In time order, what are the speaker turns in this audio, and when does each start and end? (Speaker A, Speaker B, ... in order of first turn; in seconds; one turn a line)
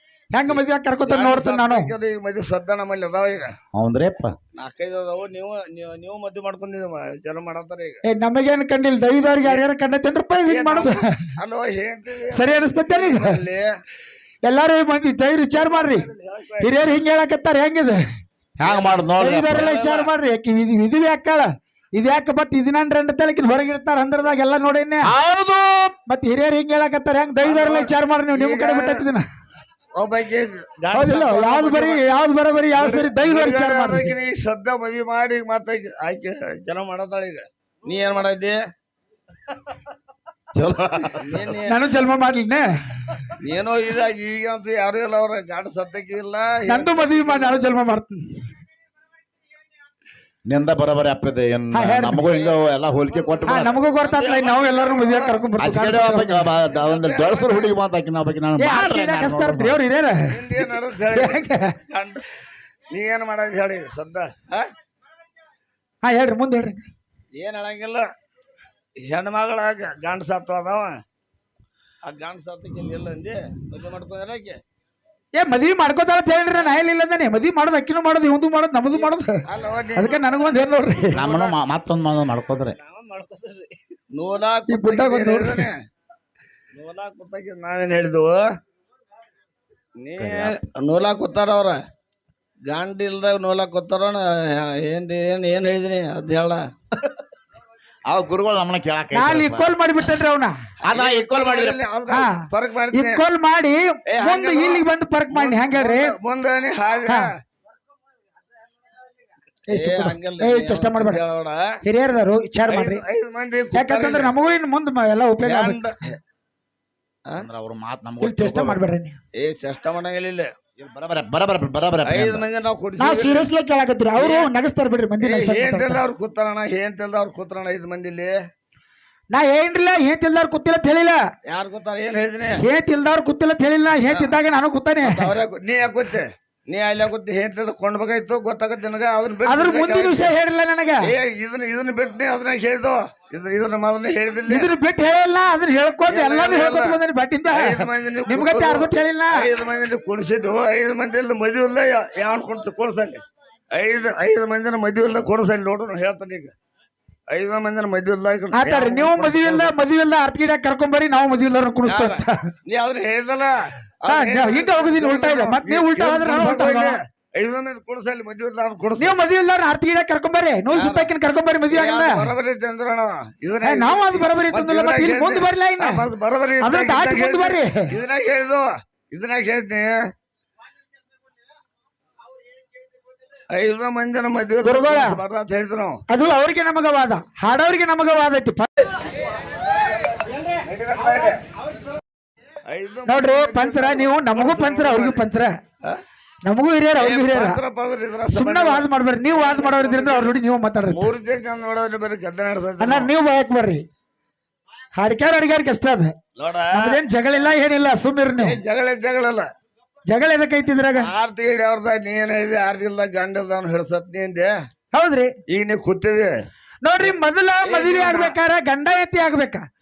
Speaker A: 0.3-1.9
Speaker B: 0.5-3.5
Speaker C: 3.7-4.3
Speaker B: 4.5-8.0
Speaker A: 8.1-11.2
Speaker B: 10.5-13.7
Speaker A: 12.3-13.4
Speaker A: 14.4-16.1
Speaker B: 15.5-16.8
Speaker A: 16.6-18.0
Speaker C: 18.6-19.7
Speaker B: 18.6-20.1
Speaker A: 19.2-25.1
Speaker C: 25.1-25.9
Speaker A: 26.1-29.2
Speaker B: 27.4-29.0
Speaker B: 30.0-32.0
Speaker A: 30.9-34.1
Speaker B: 32.8-38.6
Speaker C: 40.5-41.4
Speaker B: 41.2-41.8
Speaker A: 41.6-43.2
Speaker B: 43.4-47.6
Speaker A: 46.7-48.2
Speaker C: 50.5-53.7
Speaker A: 51.7-52.2
Speaker B: 53.2-55.4
Speaker A: 53.5-56.5
Speaker C: 55.6-59.8
Speaker B: 56.7-57.7
Speaker A: 58.6-61.8
Speaker B: 60.3-62.2
Speaker B: 62.9-64.7
Speaker A: 66.0-66.8
Speaker B: 67.4-68.1
Speaker B: 69.0-71.0
Speaker B: 72.0-74.6
Speaker A: 75.4-79.4
Speaker B: 78.9-80.2
Speaker A: 80.0-81.2
Speaker B: 81.1-81.5
Speaker C: 81.2-82.8
Speaker B: 82.8-85.7
Speaker A: 84.7-85.7
Speaker B: 86.8-88.4
Speaker B: 90.0-91.8
Speaker C: 90.2-90.6
Speaker B: 92.7-96.6
Speaker C: 98.1-99.7
Speaker A: 99.1-100.5
Speaker C: 100.9-101.8
Speaker B: 100.9-103.2
Speaker A: 102.1-106.1
Speaker B: 104.1-107.3
Speaker A: 109.7-111.2
Speaker B: 109.7-111.7
Speaker A: 111.8-113.0
Speaker B: 112.7-114.3
Speaker A: 113.7-115.8
Speaker B: 115.4-116.2
Speaker C: 117.3-118.8
Speaker A: 118.2-119.2
Speaker B: 119.4-120.5
Speaker C: 120.8-122.5
Speaker B: 122.0-123.5
Speaker A: 123.0-126.0
Speaker B: 124.2-124.5
Speaker B: 125.2-128.3
Speaker A: 129.3-131.2
Speaker B: 131.5-132.6
Speaker A: 132.6-135.3
Speaker B: 134.1-134.4
Speaker B: 135.0-140.3
Speaker A: 139.5-141.1
Speaker B: 141.0-144.7
Speaker A: 144.5-149.5
Speaker B: 146.1-147.0
Speaker B: 147.5-153.2
Speaker B: 153.7-156.5
Speaker B: 157.3-159.7
Speaker A: 158.5-162.4
Speaker B: 161.8-169.2
Speaker A: 164.1-167.0
Speaker A: 169.0-172.3
Speaker B: 170.7-171.1
Speaker B: 171.7-180.0
Speaker A: 173.6-176.0
Speaker A: 176.6-177.9
Speaker B: 183.5-186.0
Speaker A: 184.6-185.2
Speaker A: 186.1-188.9
Speaker B: 190.6-191.4
Speaker B: 192.7-195.2
Speaker A: 193.1-195.5
Speaker A: 196.4-197.6
Speaker B: 197.0-200.4
Speaker A: 198.3-201.1
Speaker B: 200.9-203.1
Speaker A: 202.8-203.8
Speaker A: 204.9-206.1
Speaker B: 206.4-206.8
Speaker A: 206.8-208.6
Speaker B: 208.4-209.5
Speaker A: 210.1-211.1
Speaker B: 211.0-214.5
Speaker A: 214.9-215.3
Speaker B: 215.5-216.3
Speaker A: 216.8-219.6
Speaker B: 217.7-218.4